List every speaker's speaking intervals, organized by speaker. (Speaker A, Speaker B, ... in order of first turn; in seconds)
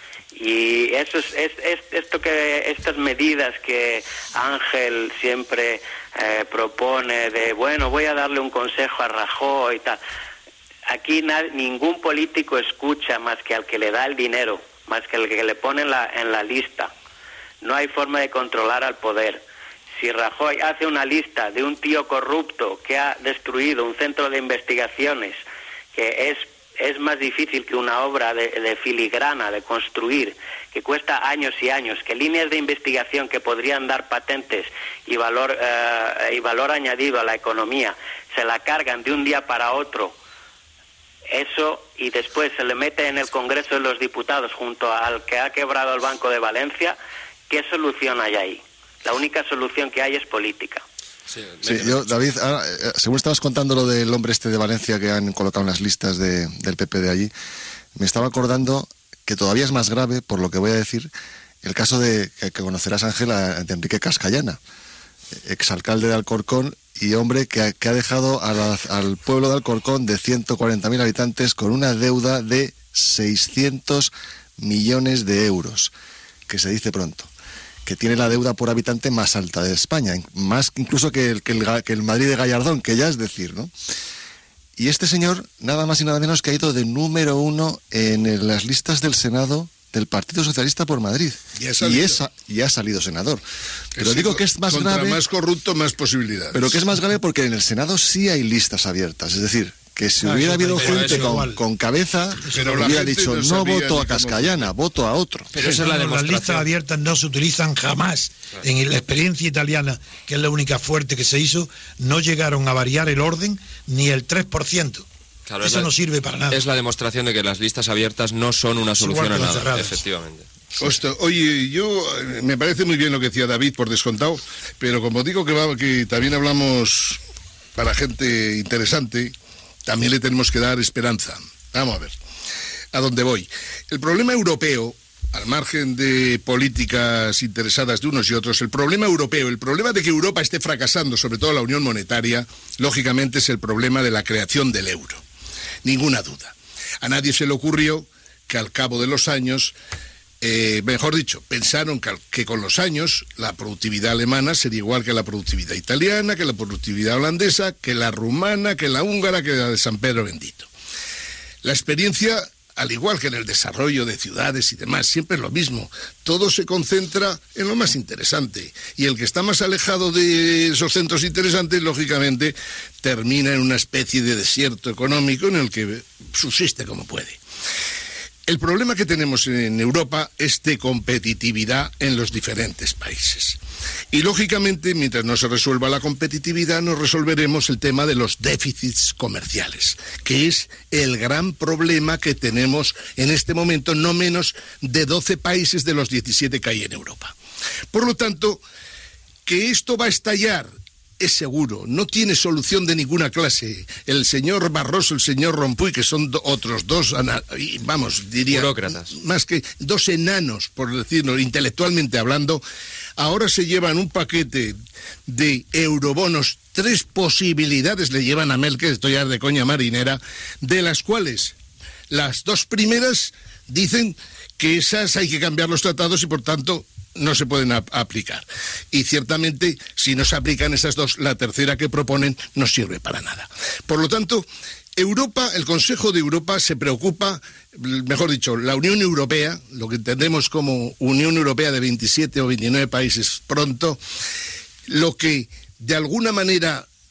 Speaker A: 0.3-10.0, 10.9-16.9, 17.6-19.4, 20.0-25.4, 25.9-40.1, 41.3-47.0, 47.5-50.8
Speaker B: 51.3-52.1, 100.8-101.4, 105.5-106.7, 115.5-115.9, 116.5-120.5, 208.5-209.1
Speaker C: 51.6-57.3, 58.0-61.1, 61.6-64.6, 65.4-75.9, 76.5-77.3, 77.8-83.7, 84.8-93.4, 94.0-95.2, 96.5-105.5
Speaker D: 91.6-92.2, 94.0-96.8, 102.5-104.7, 120.8-127.2, 127.7-129.3, 129.8-132.1, 132.9-145.2, 145.8-149.7, 150.4-160.7, 161.6-177.4, 178.4-183.6, 184.1-197.3, 197.9-198.6, 199.4-200.7, 201.2-212.6, 213.2-221.5, 222.1-234.4, 235.0-244.0, 244.9-246.9
Speaker E: 100.2-101.6, 102.5-103.0, 105.6-115.0, 115.6-116.6, 119.0-120.0